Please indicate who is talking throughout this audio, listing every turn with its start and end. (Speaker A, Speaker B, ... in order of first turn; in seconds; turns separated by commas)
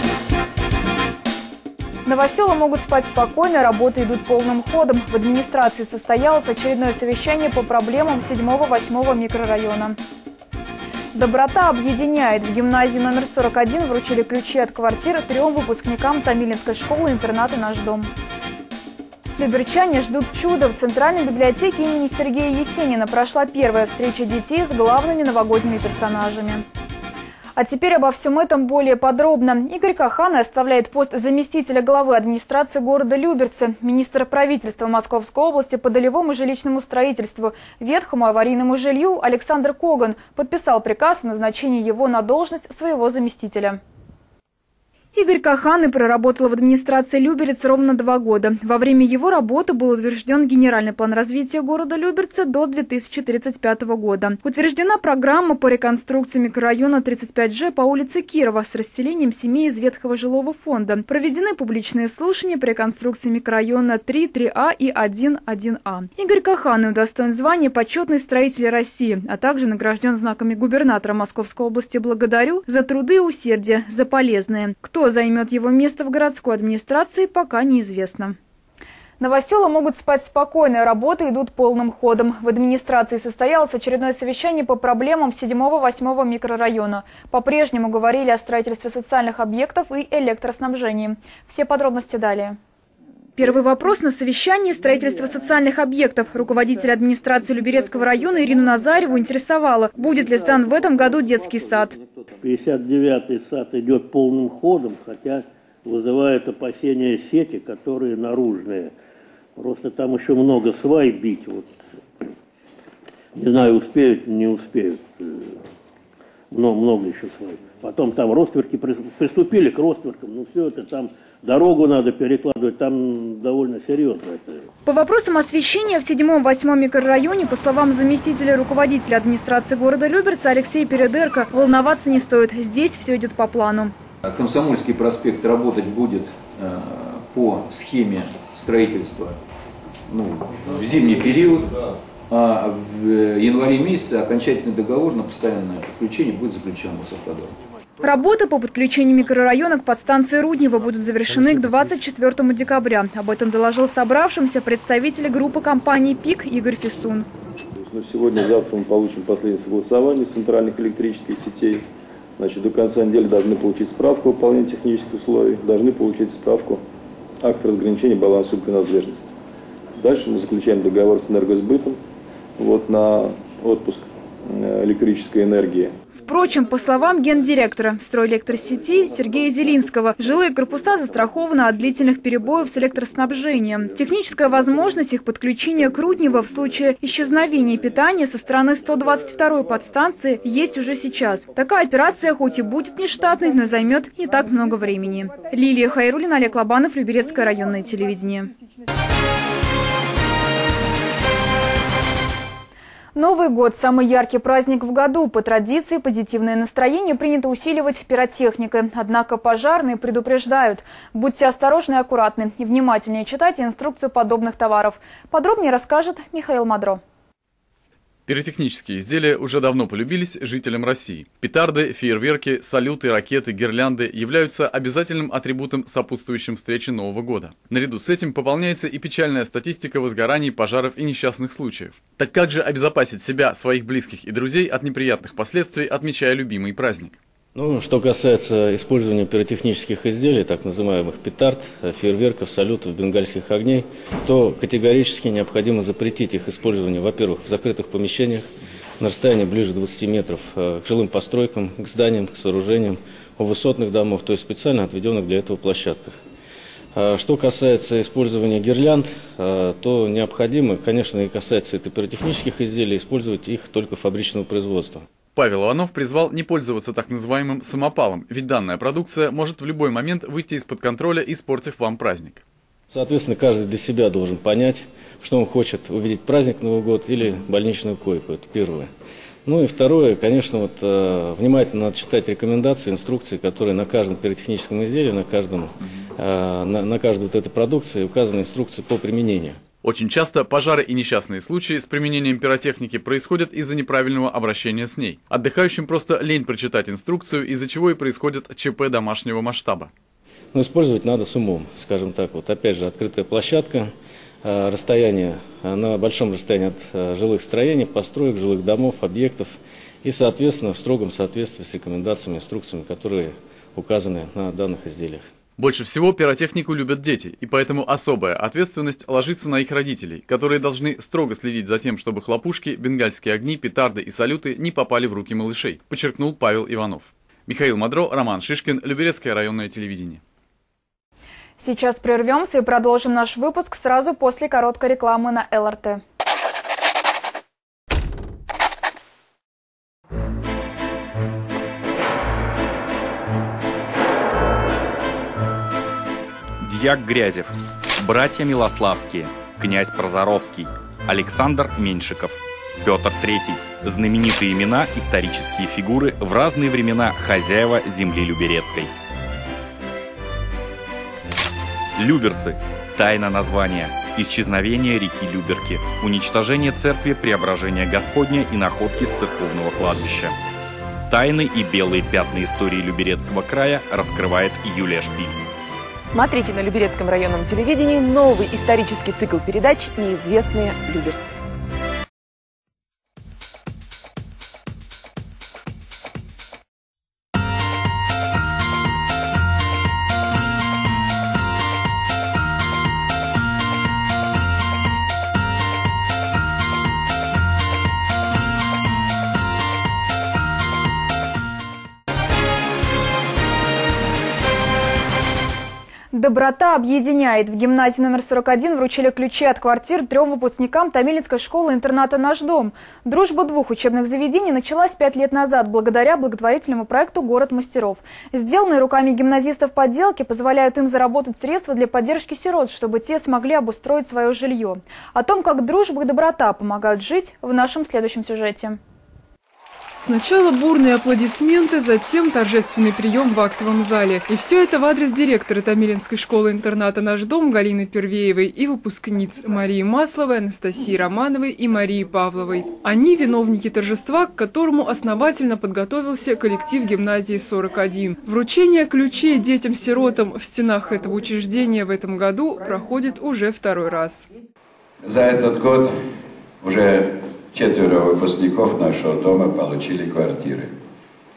Speaker A: 2.0-10.0, Speaker A: 11.1-18.1, Speaker A: 19.4-26.6, Speaker A: 27.6-43.8, Speaker A: 45.1-78.3, Speaker A: 79.2-92.6, Speaker A: 93.3-102.0, Speaker B: 102.4-108.9, Speaker B: 109.6-111.6, Speaker B: 113.4-115.0, Speaker B: 116.5-124.5, Speaker A: 124.8-133.9, Speaker C: 134.3-139.4, Speaker C: 140.1-141.7, Speaker C: 142.3-147.5, Speaker A: 148.0-157.3, Speaker D: 157.8-161.8, Speaker D: 162.4-166.8, Speaker D: 167.4-169.3, Speaker D: 170.0-172.0, Speaker D: 172.6-175.9, Speaker A: 176.2-198.5, Speaker A: 203.1-217.0, Speaker E: 218.3-237.2, Speaker F: 237.5-248.5, Speaker F: 249.0-256.2, Speaker F: 256.9-265.1, Speaker E: 265.3-272.4, Speaker F: 272.9-278.9, Speaker F: 279.4-289.6, Speaker E: 289.8-299.9, Speaker F: 300.5-303.9, Speaker F: 304.4-315.2, Speaker E: 315.6-330.2, Speaker A: 331.6-336.0, Speaker G: 346.6-358.9, Speaker G: 362.0-370.3, Speaker G: 371.1-375.3, Speaker H: 376.0-381.4, Speaker A: 406.1-428.8, Speaker I: 430.0-454.3, Speaker J: 455.0-455.9, Speaker J: 456.6-460.7